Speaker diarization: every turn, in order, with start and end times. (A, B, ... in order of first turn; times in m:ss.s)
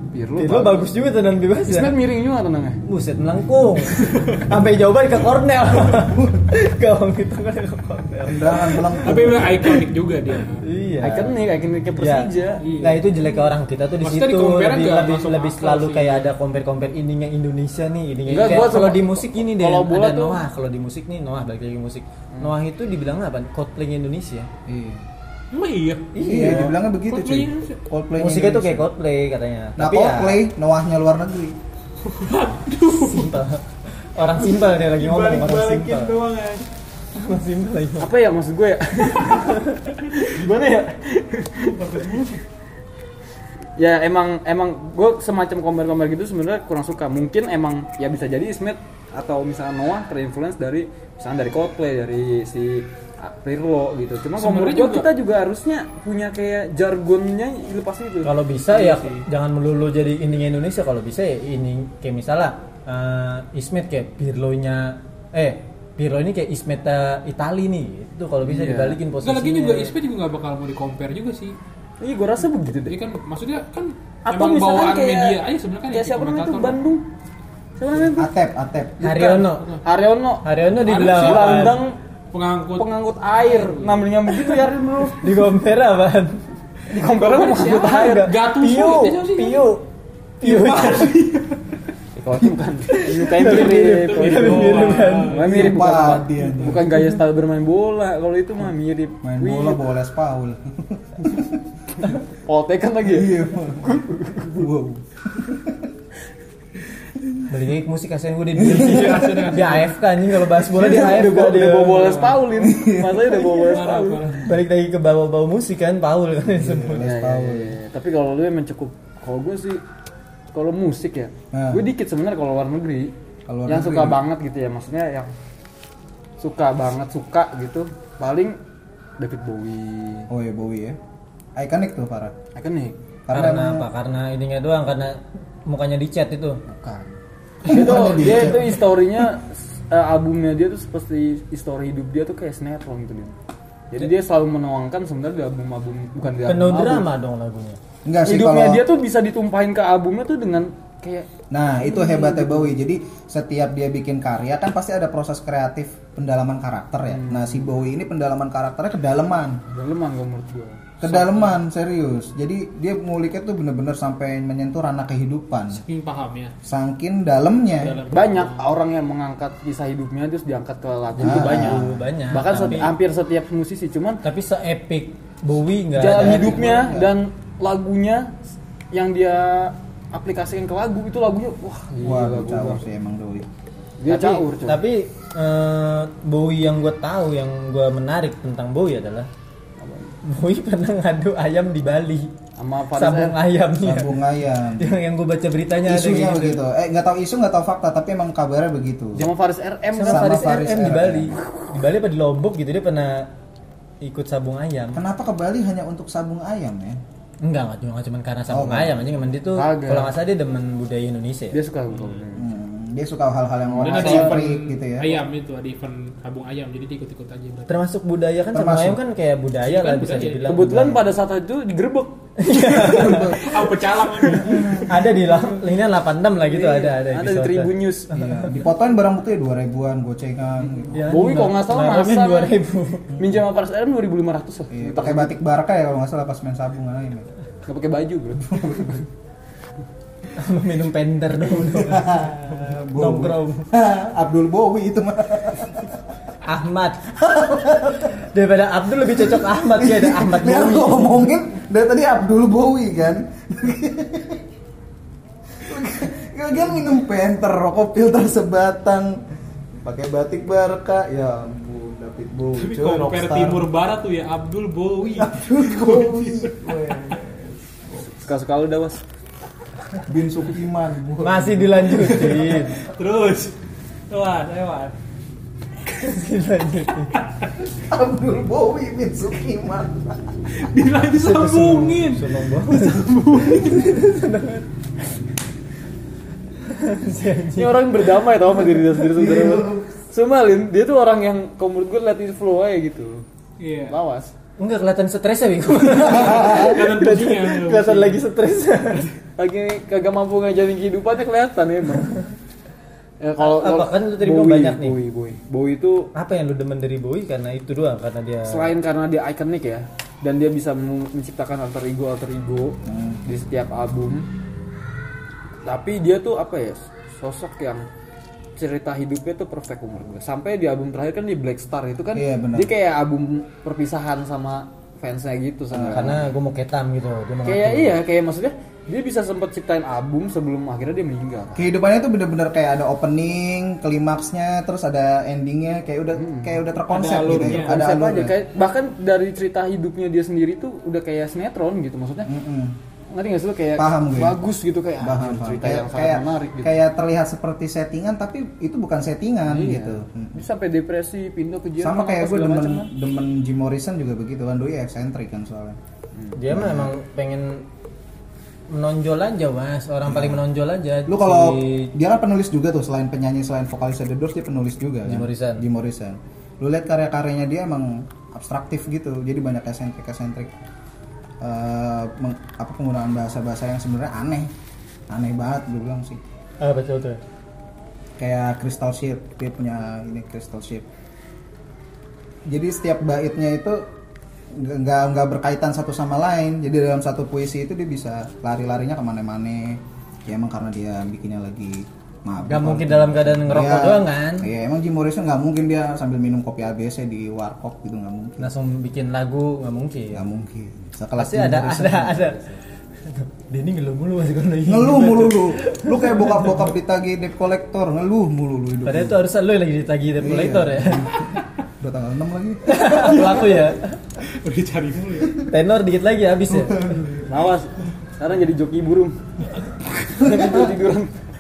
0:00.1-0:00.9 A
0:00.4-0:01.9 B
0:01.7-0:02.8 A
0:02.9-0:09.0 B
0:06.1-0:06.5 C
0:08.2-0:09.7 C
0:08.9-0:10.6 D
0:10.6-0:11.3 B
0:11.0-0:12.6 A
0:12.0-0:24.5 B
0:12.6-0:13.1 D
0:14.0-0:16.3 D
0:18.3-0:20.4 A
0:24.7-0:25.0 C
0:25.5-0:27.8 D
0:26.1-0:26.8 B
0:26.2-0:28.9 C
0:28.2-0:30.4 B
0:29.8-0:31.6 C
0:32.0-0:33.4 D
0:32.9-0:33.6 B
0:34.2-0:36.2 B
0:34.4-0:36.7 D
0:37.2-0:38.1 B
0:38.0-0:41.8 A
0:39.2-0:39.9 B
0:40.1-0:40.4 D
0:41.5-0:42.4 D
0:43.8-0:58.3 A
0:54.4-0:55.1 D
0:58.2-1:09.9 B
0:58.7-0:59.2 D
1:08.4-1:09.0 A
1:09.2-1:11.6 D
1:12.0-1:13.0 A
1:12.9-1:16.8 D
1:14.2-1:17.0 A
1:17.8-1:18.3 A
1:18.2-1:19.1 C
1:19.0-1:19.8 B
1:19.0-1:22.0 A
1:19.4-1:19.8 D
1:20.4-1:21.8 B
1:20.8-1:24.5 D
1:22.8-1:25.4 A
1:25.2-1:26.4 B
1:26.9-1:28.3 A
1:27.0-1:29.7 D
1:27.9-1:29.8 B
1:30.4-1:31.2 B
1:30.4-1:31.6 D
1:32.2-1:39.8 A
1:32.9-1:35.4 B
1:33.4-1:37.1 D
1:35.4-1:37.0 C
1:39.2-1:41.6 C
1:42.1-1:44.7 A
1:43.0-1:45.9 C
1:47.5-1:52.4 B
1:48.6-1:49.5 C
1:48.6-1:49.9 D
1:50.7-1:54.3 A
1:50.9-1:51.4 D
1:52.0-1:52.3 D
1:52.5-1:53.6 C
1:53.4-1:54.6 D
1:54.4-1:57.0 B
1:56.6-1:57.8 C
1:57.0-1:59.8 A
2:00.5-2:03.1 A
2:01.5-2:01.8 C
2:03.5-2:04.2 C
2:03.7-2:05.3 A
2:06.4-2:08.6 A
2:09.2-2:10.3 A
2:10.3-2:11.0 C
2:11.6-2:12.4 C
2:12.6-2:13.0 A
2:13.3-2:13.9 C
2:13.3-2:16.6 B
2:16.7-2:17.1 A
2:17.6-2:18.8 C
2:17.6-2:23.4 A
2:23.9-2:27.1 A
2:26.5-2:27.8 B
2:28.0-2:28.8 C
2:28.2-2:31.3 A
2:31.5-2:39.6 C
2:31.9-2:32.7 A
2:37.0-2:37.7 A
2:39.7-2:41.0 A
2:41.0-2:45.8 C
2:41.0-2:41.5 D
2:45.7-2:46.5 D
2:46.6-2:48.0 C
2:47.8-2:48.7 D
2:48.1-2:54.2 A
2:51.2-2:51.9 C
2:51.2-2:52.9 B
2:54.2-2:56.6 B
2:56.0-2:58.4 A
2:56.1-2:57.2 C
2:58.9-3:02.8 A
3:02.0-3:03.5 C
3:04.0-3:04.8 A
3:04.1-3:09.3 B
3:09.8-3:10.1 A
3:10.2-3:12.3 B
3:12.6-3:13.4 A
3:13.0-3:14.1 B
3:13.8-3:14.9 C
3:14.8-3:16.6 B
3:15.8-3:19.3 C
3:19.2-3:20.6 A
3:20.0-3:23.3 B
3:20.0-3:21.4 C
3:24.0-3:25.0 B
3:24.9-3:27.0 C
3:27.4-3:31.6 B
3:28.5-3:29.0 C
3:29.5-3:30.1 A
3:31.5-3:32.5 A
3:31.9-3:32.2 D
3:32.4-3:35.2 C
3:33.7-3:34.4 A
3:33.8-3:37.8 D
3:37.7-3:41.0 B
3:38.5-3:39.0 C
3:39.6-3:40.6 D
3:40.5-3:43.0 A
3:42.4-3:43.5 B
3:42.8-3:43.5 C
3:42.8-3:44.8 D
3:44.4-3:44.9 C
3:44.4-3:48.5 B
3:46.4-3:48.1 A
3:48.1-3:51.0 C
3:50.9-3:53.1 B
3:51.0-3:52.6 A
3:53.1-3:53.4 C
3:53.2-3:55.4 A
3:54.7-3:57.3 C
3:57.6-3:59.0 A
3:58.5-3:59.0 C
4:00.4-4:03.7 B
4:01.4-4:06.0 C
4:06.4-4:07.1 B
4:07.1-4:08.2 C
4:08.1-4:11.2 B
4:09.0-4:14.4 C
4:15.6-4:19.2 C
4:19.8-4:23.7 C
4:22.6-4:26.7 D
4:25.2-4:28.1 C
4:28.1-4:29.0 A
4:30.0-4:32.1 C
4:31.2-4:32.8 B
4:32.0-4:33.5 D
4:34.1-4:35.0 D
4:35.9-4:37.2 B
4:37.7-4:40.2 C
4:40.5-4:44.0 D
4:41.1-4:44.6 B
4:46.6-4:47.9 B
4:47.6-4:53.2 A
4:49.0-4:49.9 C
4:53.6-4:54.0 D
4:53.9-4:54.3 A
4:54.6-4:59.0 B
4:56.0-4:58.2 D
4:56.2-4:56.8 C
4:59.4-5:02.2 A
5:03.2-5:06.1 A
5:03.4-5:05.0 B
5:06.1-5:08.7 B
5:08.5-5:14.3 A
5:12.9-5:13.2 C
5:15.6-5:17.8 A
5:18.6-5:26.2 A
5:22.1-5:22.7 C
5:25.7-5:26.2 C
5:25.9-5:28.0 B
5:27.4-5:31.7 A
5:31.6-5:38.4 C
5:36.2-5:36.6 A
5:36.9-5:37.8 D
5:37.2-5:42.3 A
5:42.3-5:42.8 C
5:43.1-5:46.8 A
5:43.8-5:44.4 C
5:45.0-5:50.4 C
5:49.5-5:52.9 A
5:51.8-5:55.8 C
5:56.4-5:57.7 B
5:56.5-5:56.9 C
5:58.7-6:01.9 B
6:00.1-6:00.4 C
6:01.1-6:10.5 C
6:05.1-6:05.6 B
6:11.4-6:14.5 C
6:15.1-6:16.2 C
6:16.6-6:17.2 B
6:18.2-6:20.9 C
6:22.5-6:23.8 C
6:24.5-6:38.5 C
6:32.4-6:34.5 B
6:38.4-6:40.2 B
6:40.1-6:42.5 C
6:41.2-6:42.6 B
6:43.1-6:46.6 B
6:44.7-6:49.2 C
6:48.8-6:51.3 B
6:50.2-6:53.5 C
6:52.7-6:54.0 B
6:54.3-6:55.4 D
6:55.5-6:56.9 B
6:56.5-6:57.3 C
6:57.3-6:59.2 A
7:00.0-7:01.1 A
7:00.2-7:00.6 C